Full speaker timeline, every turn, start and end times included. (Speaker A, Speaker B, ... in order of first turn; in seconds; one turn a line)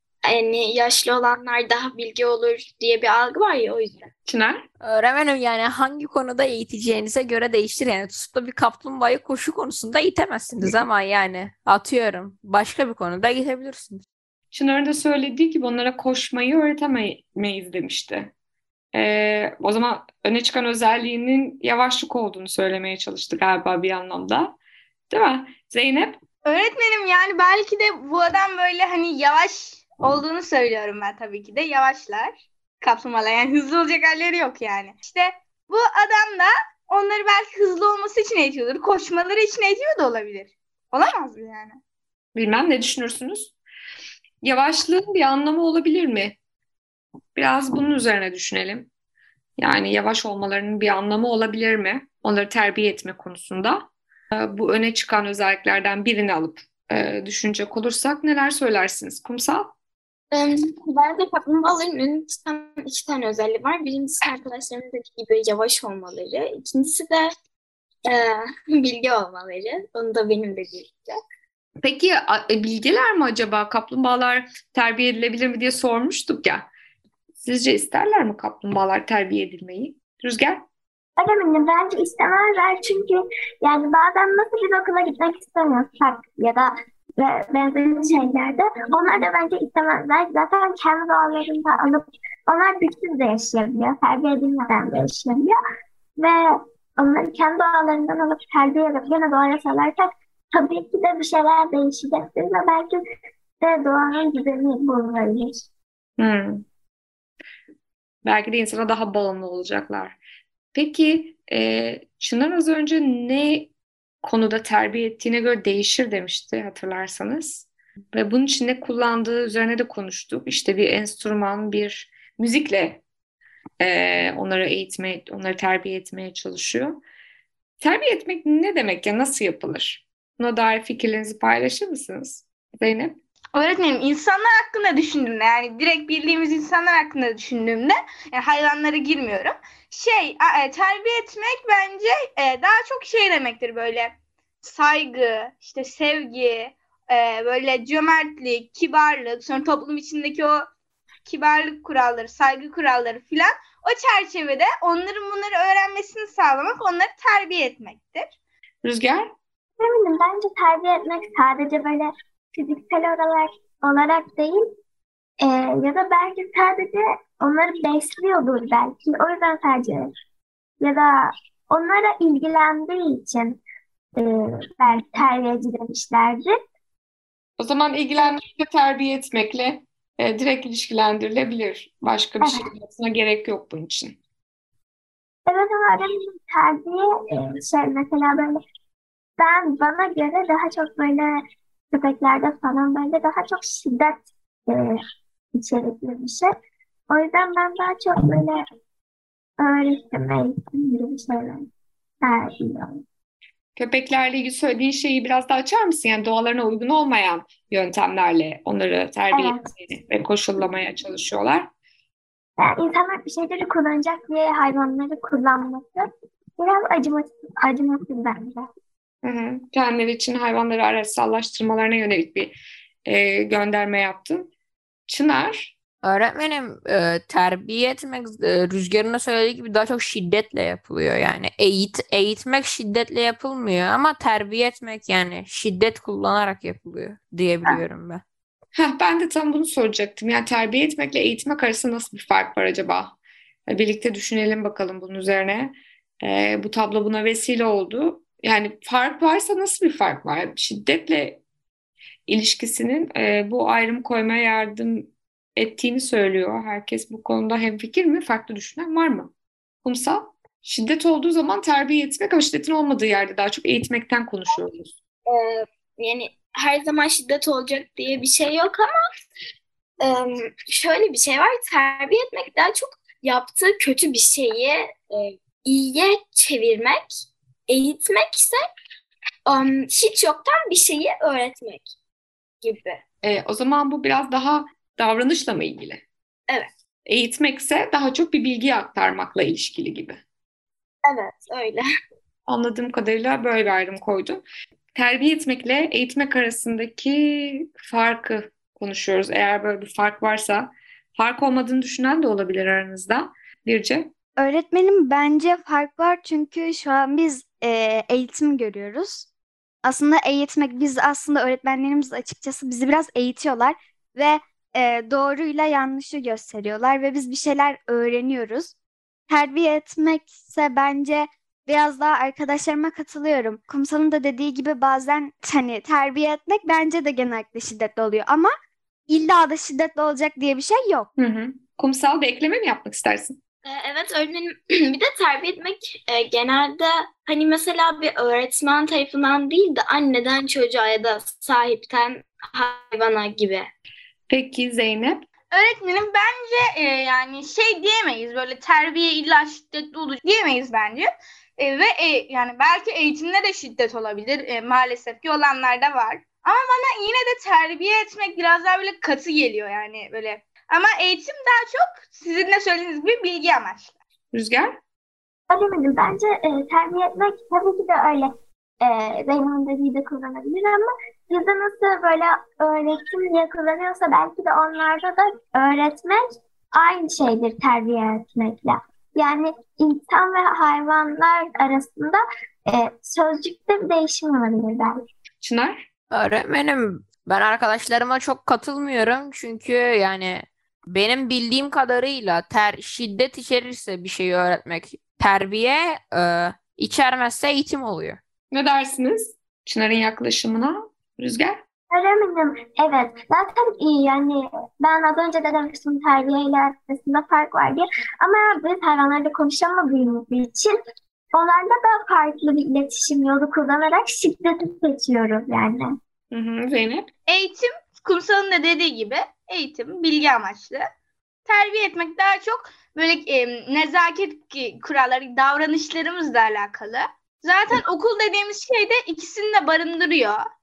Speaker A: 0.3-4.1
Speaker B: 4.3-4.7
Speaker C: 4.8-14.0
Speaker B: 14.5-18.3
Speaker B: 18.9-24.5
Speaker B: 25.1-26.2
Speaker D: 26.4-41.8
Speaker B: 42.4-43.5
Speaker B: 44.4-46.4
Speaker B: 47.4-48.9
Speaker B: 49.6-59.7
Speaker A: 60.3-67.3
Speaker A: 68.1-71.2
Speaker B: 71.8-76.7
Speaker B: 77.4-80.6
Speaker E: 81.2-95.6
Speaker E: 96.2-103.0
Speaker E: 103.6-105.7
Speaker B: 106.2-106.6
Speaker B: 108.2-110.2
Speaker B: 110.7-113.7
Speaker B: 114.2-123.0
Speaker B: 123.8-127.0
Speaker B: 127.8-133.2
Speaker D: 133.6-150.7
Speaker D: 151.3-158.3
Speaker B: 158.8-159.3
Speaker E: 159.8-164.7
Speaker E: 165.4-170.1
Speaker E: 170.8-173.6
Speaker E: 174.2-176.6
Speaker B: 177.6-184.2
Speaker E: 182.4-182.7
Speaker E: 185.5-188.6
Speaker E: 189.4-191.4
Speaker E: 191.9-195.0
Speaker E: 195.6-196.5
Speaker E: 197.1-198.6
Speaker E: 199.6-201.7
Speaker E: 202.2-203.0
Speaker B: 203.8-211.7
Speaker E: 209.3-209.7
Speaker E: 212.6-216.1
Speaker E: 216.6-218.7
Speaker B: 219.2-222.5
Speaker B: 223.1-224.5
Speaker B: 225.1-225.7
Speaker C: 226.0-238.2
Speaker B: 238.8-243.1
Speaker B: 243.7-251.4
Speaker B: 252.3-259.3
Speaker B: 259.8-264.9
Speaker A: 265.3-268.9
Speaker A: 270.0-277.1
Speaker A: 277.7-278.6
Speaker A: 279.5-281.9
Speaker A: 282.6-283.0
Speaker B: 283.2-286.0
Speaker B: 287.1-290.2
Speaker A: 291.1-291.8
Speaker B: 292.5-294.4
Speaker B: 294.9-304.1
Speaker F: 304.4-309.3
Speaker F: 309.8-318.7
Speaker F: 319.3-328.5
Speaker F: 329.1-331.1
Speaker B: 331.2-333.4
Speaker A: 333.6-343.7
Speaker B: 344.3-345.2
Speaker D: 345.5-364.0
Speaker B: 364.3-364.8
Speaker E: 365.5-376.2
Speaker E: 376.7-385.0
Speaker B: 385.4-385.9
Speaker C: 386.1-398.2
Speaker B: 398.5-401.6
Speaker E: 401.9-410.7
Speaker E: 411.3-415.9
Speaker B: 416.3-417.1
Speaker D: 417.3-420.9
Speaker D: 421.5-430.4